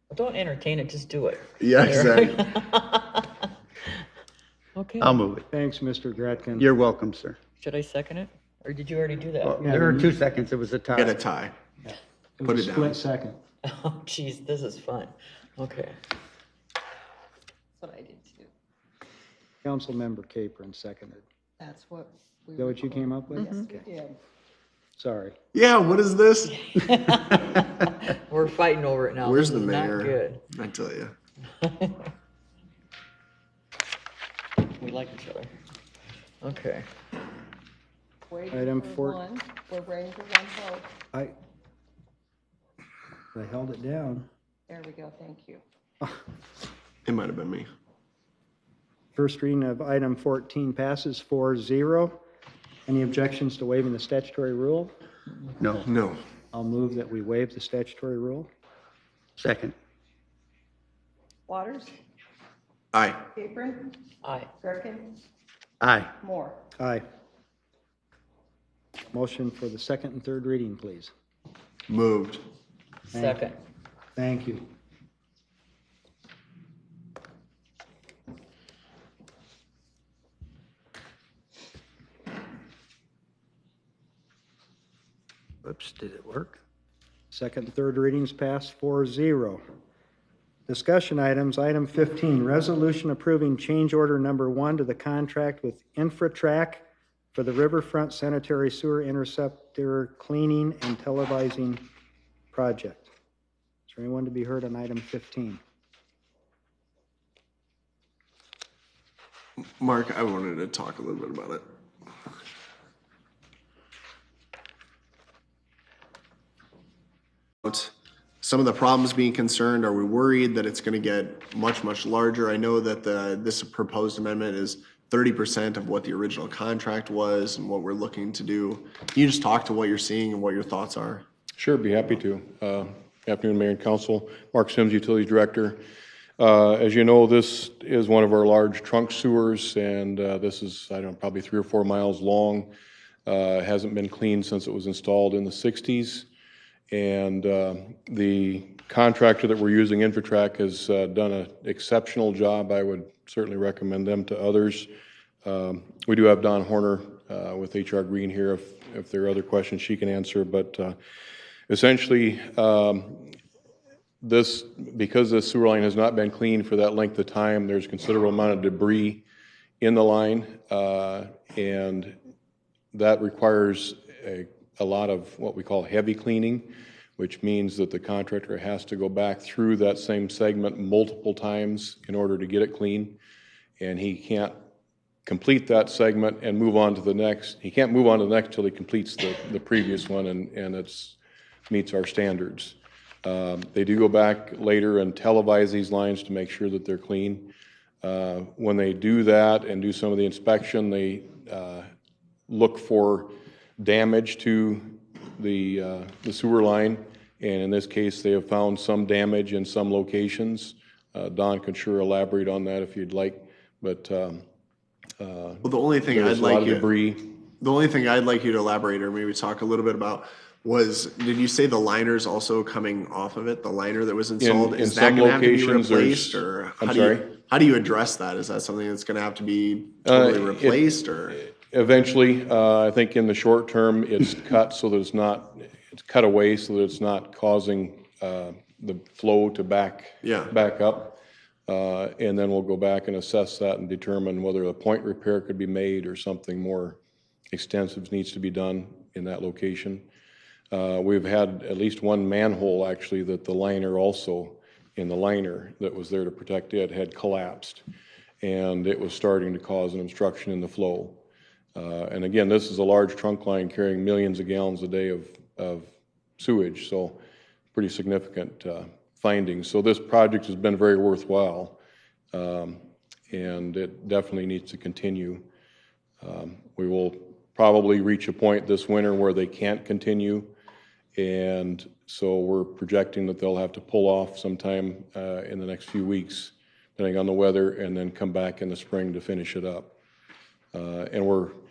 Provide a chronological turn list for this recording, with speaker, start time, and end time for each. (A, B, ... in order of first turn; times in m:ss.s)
0:00.1-0:03.4 A
0:01.6-0:02.4 B
0:04.8-0:05.2 A
0:05.0-0:05.5 C
0:05.5-0:06.7 D
0:06.6-0:07.4 C
0:07.6-0:09.6 A
0:09.4-0:11.2 C
0:09.6-0:10.1 D
0:11.0-0:11.6 B
0:11.8-0:13.4 D
0:12.5-0:13.0 B
0:13.6-0:16.0 A
0:17.8-0:18.5 E
0:19.6-0:21.2 D
0:21.6-0:24.2 E
0:22.6-0:23.9 D
0:25.0-0:25.4 D
0:25.5-0:26.9 B
0:26.7-0:30.4 A
0:29.2-0:31.1 B
0:31.6-0:31.9 A
0:34.7-0:35.5 A
0:36.4-0:36.9 A
0:38.3-0:40.9 E
0:38.5-0:39.2 D
0:43.3-0:44.3 D
0:44.7-0:45.6 E
0:47.0-0:47.7 B
0:49.2-0:52.2 D
0:52.9-0:54.9 D
0:55.6-0:55.9 C
0:55.9-0:56.2 B
0:56.5-0:58.5 D
0:59.4-0:59.8 C
1:01.5-1:02.0 E
1:02.9-1:03.2 B
1:03.4-1:04.0 E
1:04.2-1:04.5 A
1:04.6-1:05.2 E
1:05.8-1:06.1 C
1:06.2-1:06.6 E
1:06.8-1:07.0 D
1:09.1-1:11.1 D
1:11.9-1:12.4 B
1:13.1-1:13.6 A
1:13.1-1:13.4 D
1:14.2-1:14.6 D
1:25.6-1:26.6 C
1:27.3-1:29.6 D
1:30.7-1:36.8 D
1:37.4-1:41.8 D
1:42.5-1:43.1 D
1:43.9-1:45.6 D
1:49.8-1:51.6 B
1:57.6-2:11.2 B
2:11.6-2:15.8 F
2:16.4-2:22.7 F
2:23.3-2:26.3 F
2:26.9-2:34.9 F
2:35.4-2:41.0 F
2:41.7-2:43.3 F
2:44.2-2:49.2 F
2:49.8-2:52.2 F
2:52.9-3:03.2 F
3:03.8-3:04.6 F
3:05.2-3:11.2 F
3:11.7-3:21.9 F
3:22.5-3:34.4 F
3:35.2-3:37.4 F
3:35.6-3:36.9 B
3:37.6-3:51.4 B
3:44.4-3:47.3 F
3:50.0-4:07.0 F
4:00.2-4:00.5 B
4:07.5-4:10.0 F
4:10.7-4:17.8 F
4:18.4-4:21.2 F
4:21.8-4:27.2 F
4:27.7-4:31.8 F
4:32.3-4:35.4 F
4:36.2-4:40.5 F
4:41.2-4:49.9 F
4:50.7-4:51.6 F